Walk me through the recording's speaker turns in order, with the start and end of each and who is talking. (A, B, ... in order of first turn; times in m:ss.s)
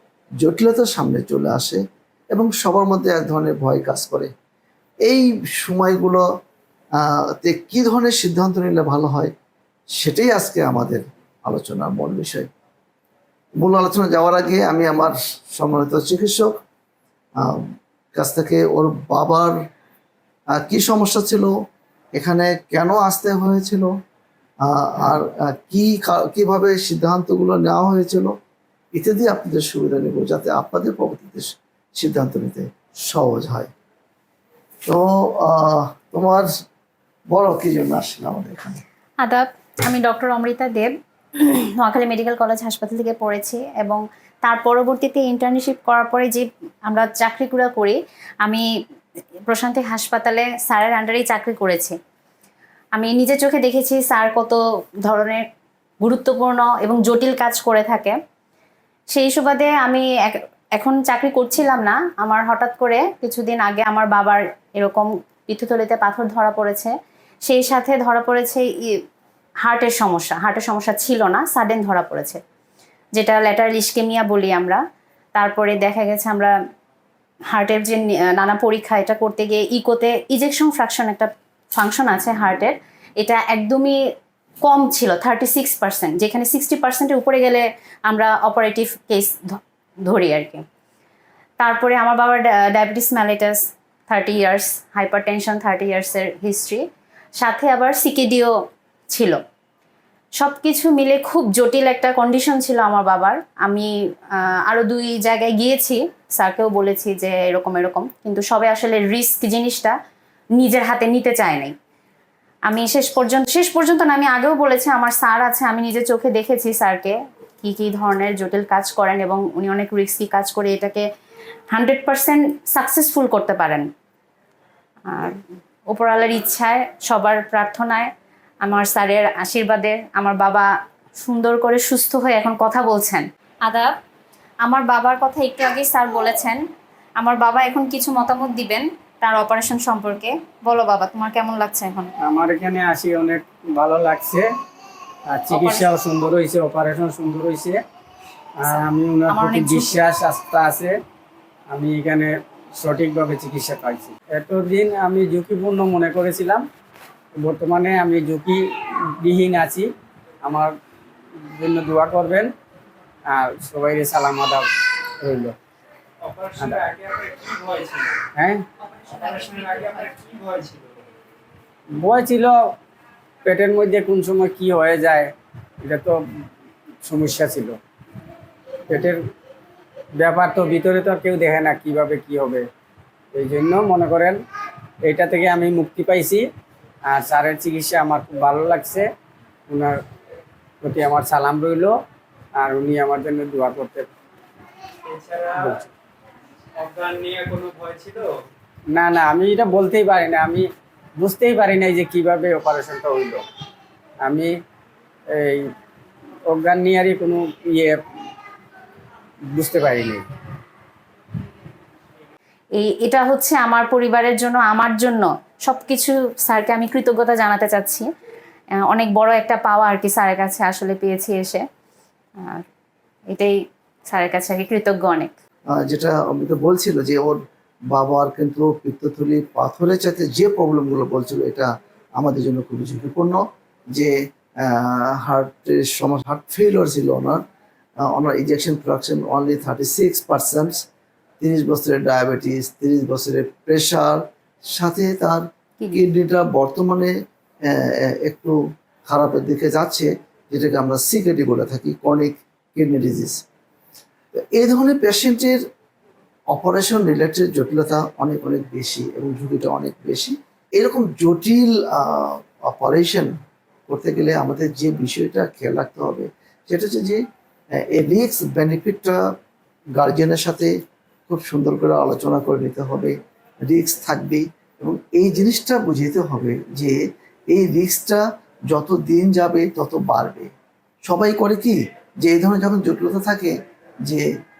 0:00.4-0:04.3 A
0:05.0-0:06.2 A
0:07.0-0:09.3 A
0:10.0-0:12.5 A
0:13.6-0:16.6 A
0:17.4-0:17.6 A
0:18.2-0:19.6 A
0:20.6-0:21.5 A
0:22.2-0:23.9 A
0:24.6-0:28.3 A
0:29.0-0:33.7 A
0:34.9-0:36.5 A
0:37.3-0:38.8 A
0:39.2-0:48.7 B
0:49.5-0:52.0 B
0:53.0-0:55.4 B
0:56.0-0:58.2 B
0:59.1-1:06.9 B
1:07.5-1:08.7 B
1:09.6-1:12.4 B
1:13.2-1:14.8 B
1:15.4-1:16.5 B
1:17.5-1:24.0 B
1:24.6-1:29.4 B
1:30.1-1:30.6 B
1:31.6-1:36.8 B
1:37.4-1:38.6 B
1:39.1-1:39.4 B
1:40.4-1:50.0 B
1:50.6-1:51.7 B
1:52.7-2:01.1 B
2:01.7-2:03.9 B
2:05.1-2:05.4 B
2:05.9-2:08.1 B
2:08.6-2:10.7 B
2:11.2-2:13.9 B
2:14.6-2:16.6 B
2:17.2-2:22.1 B
2:22.2-2:24.5 C
2:25.3-2:27.8 C
2:25.5-2:25.9 B
2:28.6-2:31.0 C
2:29.3-2:30.0 B
2:31.7-2:36.6 C
2:37.4-2:38.6 C
2:39.2-2:39.9 C
2:40.4-2:40.7 C
2:41.5-2:42.5 C
2:43.3-2:44.7 C
2:45.2-2:45.6 C
2:46.2-2:48.2 D
2:46.6-2:46.8 C
2:48.3-2:48.6 C
2:49.1-2:50.9 D
2:52.0-2:52.6 C
2:53.4-2:55.3 C
2:55.8-2:56.2 C
2:57.0-2:57.8 C
2:58.9-2:59.2 C
3:00.2-3:02.7 C
3:03.3-3:04.4 C
3:05.0-3:06.4 C
3:07.1-3:09.1 C
3:09.7-3:10.0 C
3:10.8-3:11.9 C
3:12.6-3:14.1 C
3:15.0-3:15.8 D
3:15.6-3:15.9 C
3:16.8-3:18.4 D
3:18.9-3:20.7 C
3:21.2-3:23.4 C
3:24.2-3:24.5 C
3:25.3-3:25.7 C
3:26.5-3:28.0 C
3:29.5-3:30.2 C
3:32.8-3:38.0 B
3:38.8-3:41.6 B
3:44.1-3:45.3 B
3:45.8-3:47.4 A
3:47.9-3:53.4 A
3:53.9-3:57.4 A
3:58.0-4:00.8 A
4:01.4-4:07.1 A
4:07.6-4:13.4 A
4:14.3-4:15.6 A
4:16.5-4:23.3 A
4:23.9-4:27.2 A
4:27.8-4:29.2 A
4:30.0-4:30.7 A
4:31.3-4:33.2 A
4:33.7-4:37.0 A
4:37.5-4:40.5 A
4:41.1-4:44.3 A